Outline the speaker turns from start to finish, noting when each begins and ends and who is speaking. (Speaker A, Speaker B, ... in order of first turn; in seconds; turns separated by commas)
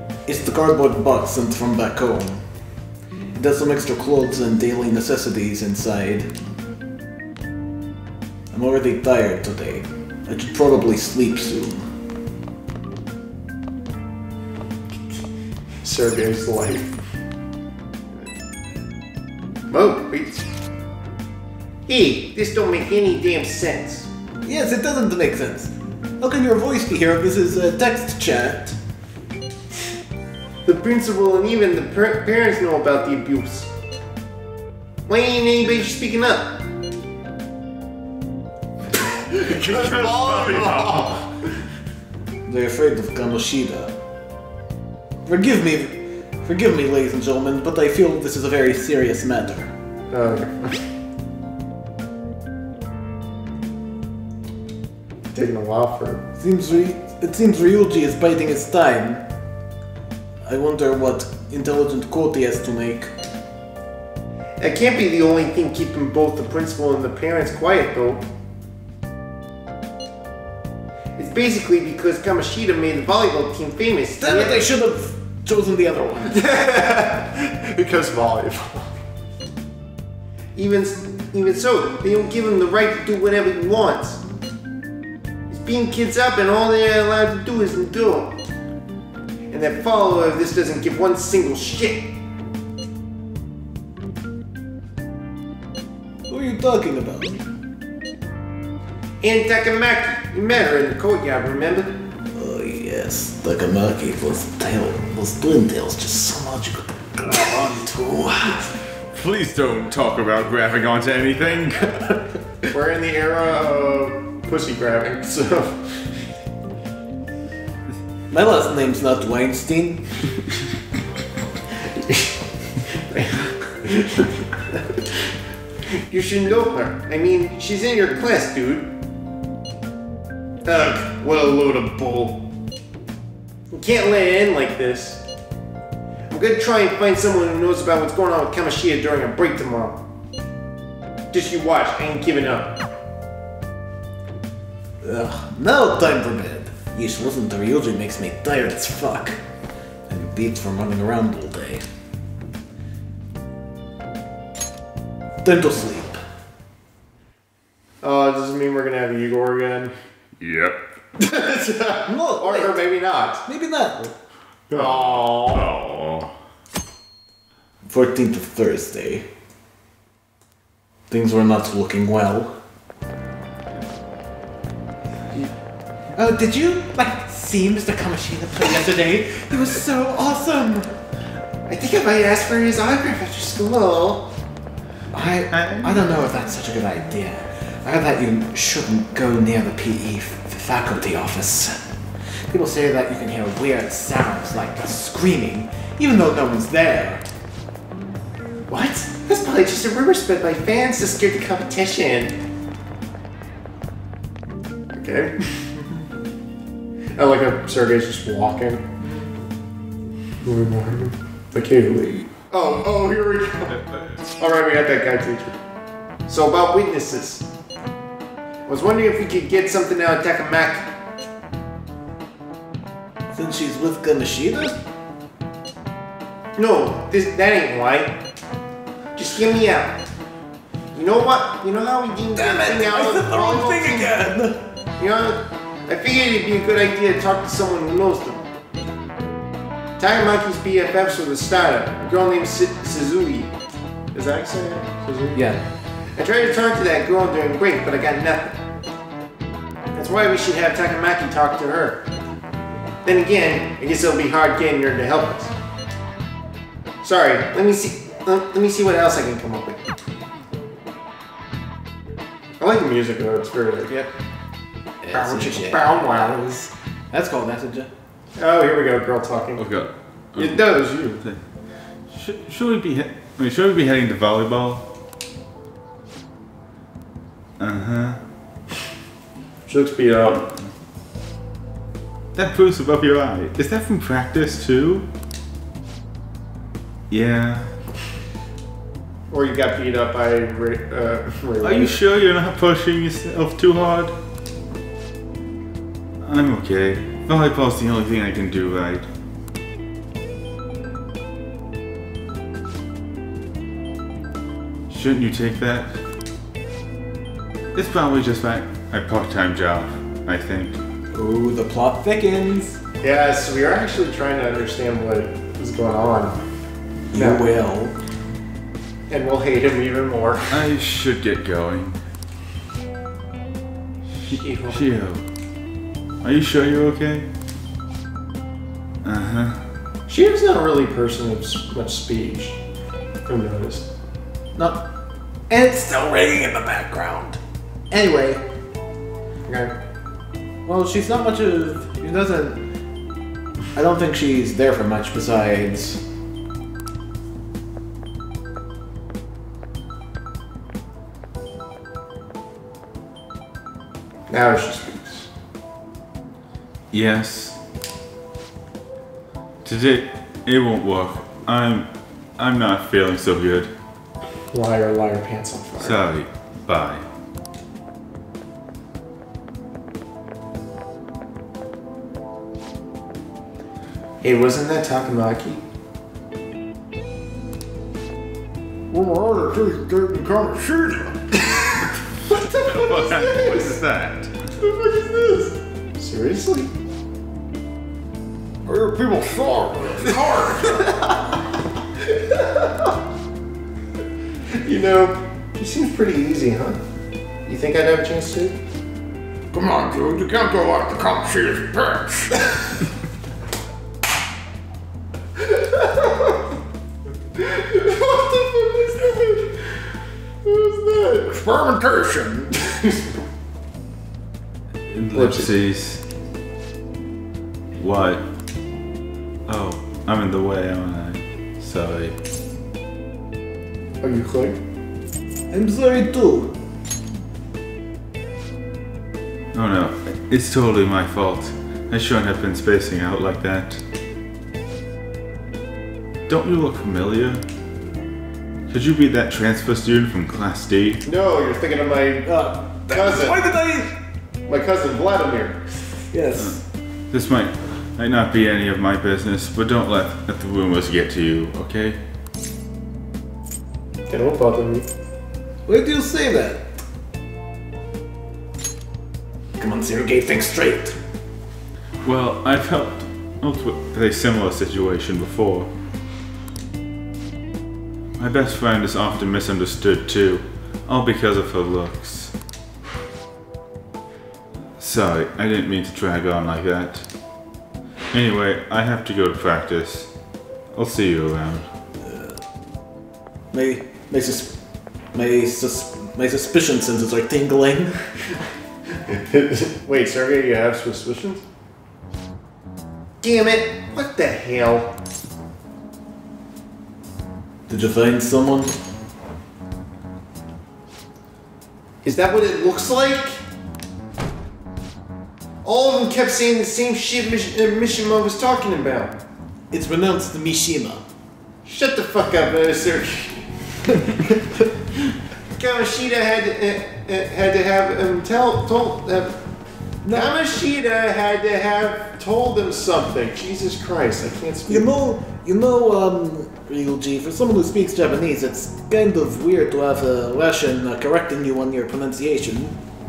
Speaker A: 0.2-2.4, Speaker A: 3.3-6.3, Speaker A: 8.5-11.9, Speaker B: 15.8-17.0, Speaker B: 19.7-20.5, Speaker B: 21.9-24.1, Speaker A: 24.4-28.8, Speaker B: 30.6-33.7, Speaker B: 35.1-36.6, Speaker B: 39.0-41.5, Speaker C: 39.5-41.0, Speaker A: 42.5-43.9, Speaker A: 45.2-49.7, Speaker B: 50.1-50.9, Speaker B: 55.3-56.2, Speaker A: 56.4-59.3, Speaker A: 60.4-63.1, Speaker B: 64.6-68.3, Speaker B: 71.2-74.7, Speaker A: 74.2-76.5, Speaker B: 76.3-79.0, Speaker B: 80.5-84.2, Speaker B: 85.5-88.4, Speaker B: 89.5-92.1, Speaker A: 96.3-97.4, Speaker B: 99.2-102.0, Speaker A: 102.3-108.8, Speaker C: 109.1-112.1, Speaker B: 112.7-116.1, Speaker A: 118.3-120.2, Speaker B: 122.0-122.3, Speaker B: 122.9-125.1, Speaker B: 125.9-128.9, Speaker B: 130.6-132.5, Speaker B: 133.7-135.2, Speaker B: 136.3-140.0, Speaker B: 141.3-142.8, Speaker A: 145.0-149.4, Speaker A: 150.1-151.8, Speaker A: 155.4-156.2, Speaker B: 158.0-159.9, Speaker C: 160.4-160.8, Speaker B: 161.2-163.4, Speaker A: 162.1-162.8, Speaker A: 163.4-164.1, Speaker C: 164.7-166.3, Speaker B: 164.7-165.7, Speaker A: 167.8-169.3, Speaker A: 171.1-172.6, Speaker A: 176.1-181.0, Speaker B: 181.7-184.3, Speaker A: 185.1-191.8, Speaker C: 185.5-186.1, Speaker A: 192.5-197.2, Speaker B: 198.7-202.3, Speaker B: 204.9-205.7, Speaker B: 207.2-208.8, Speaker B: 210.4-215.6, Speaker C: 213.7-214.2, Speaker B: 216.3-217.5, Speaker B: 218.7-220.9, Speaker A: 223.3-224.8, Speaker B: 226.6-228.2, Speaker B: 229.1-230.1, Speaker B: 230.9-234.2, Speaker A: 232.3-234.6, Speaker B: 235.0-238.5, Speaker B: 240.0-243.5, Speaker B: 244.1-245.5, Speaker A: 245.3-245.6, Speaker B: 246.1-248.6, Speaker B: 249.9-252.1, Speaker B: 253.0-255.5, Speaker B: 257.0-259.8, Speaker B: 262.6-264.1, Speaker A: 265.0-266.0, Speaker B: 265.1-266.7, Speaker A: 267.1-267.9, Speaker B: 268.4-269.7, Speaker C: 269.6-271.4, Speaker B: 270.3-271.2, Speaker C: 272.1-274.9, Speaker C: 277.6-278.2, Speaker B: 279.7-280.4, Speaker C: 282.3-285.1, Speaker C: 287.1-287.7, Speaker B: 289.3-292.0, Speaker C: 291.6-294.1, Speaker C: 296.2-299.1, Speaker C: 304.9-306.0, Speaker C: 307.7-310.8, Speaker A: 311.1-312.8, Speaker B: 313.0-316.4, Speaker A: 317.1-317.9, Speaker B: 317.1-317.4, Speaker B: 319.1-320.6, Speaker C: 320.5-322.0, Speaker B: 324.2-324.8, Speaker C: 324.2-325.2, Speaker C: 326.2-327.3, Speaker C: 329.0-329.6, Speaker B: 330.1-332.6, Speaker B: 333.3-333.9, Speaker A: 334.6-334.9, Speaker A: 335.5-337.4, Speaker A: 337.9-338.5, Speaker B: 339.5-339.8, Speaker A: 340.6-342.6, Speaker A: 343.7-346.0, Speaker B: 354.3-355.3, Speaker C: 356.9-357.6, Speaker C: 359.6-363.7, Speaker B: 364.5-366.0, Speaker C: 365.8-367.0, Speaker B: 374.2-375.6, Speaker A: 378.9-381.4, Speaker B: 381.8-383.7, Speaker C: 382.5-384.3, Speaker B: 384.6-386.7, Speaker A: 388.6-390.9, Speaker B: 390.6-391.2, Speaker B: 392.0-392.9, Speaker B: 394.5-396.8, Speaker B: 397.4-398.6, Speaker A: 399.5-402.5, Speaker B: 405.4-406.5, Speaker B: 407.3-409.8, Speaker B: 410.4-411.4, Speaker A: 411.3-412.5, Speaker B: 412.6-413.2, Speaker C: 414.9-416.0, Speaker B: 415.1-415.5, Speaker C: 417.8-418.2, Speaker C: 419.5-422.1, Speaker B: 424.0-424.6, Speaker A: 425.5-426.6, Speaker C: 429.5-433.8, Speaker C: 436.3-437.4, Speaker C: 438.7-441.0, Speaker B: 441.0-443.4, Speaker A: 442.2-444.0, Speaker B: 444.5-445.6, Speaker A: 446.1-446.6, Speaker C: 447.1-452.0, Speaker B: 454.1-454.9, Speaker A: 455.7-456.8, Speaker A: 459.6-461.0, Speaker C: 462.0-465.7, Speaker C: 468.2-472.3, Speaker C: 474.8-477.1, Speaker C: 478.1-480.1, Speaker C: 480.7-481.7, Speaker A: 482.0-482.4, Speaker A: 483.5-484.6, Speaker A: 485.1-488.0, Speaker B: 489.1-491.4, Speaker B: 493.2-495.0, Speaker A: 497.7-498.8, Speaker B: 502.0-503.4, Speaker B: 505.6-509.2, Speaker A: 509.7-511.0, Speaker B: 511.6-514.7, Speaker B: 515.5-519.4, Speaker A: 520.0-520.3, Speaker B: 520.1-524.9, Speaker A: 524.7-532.8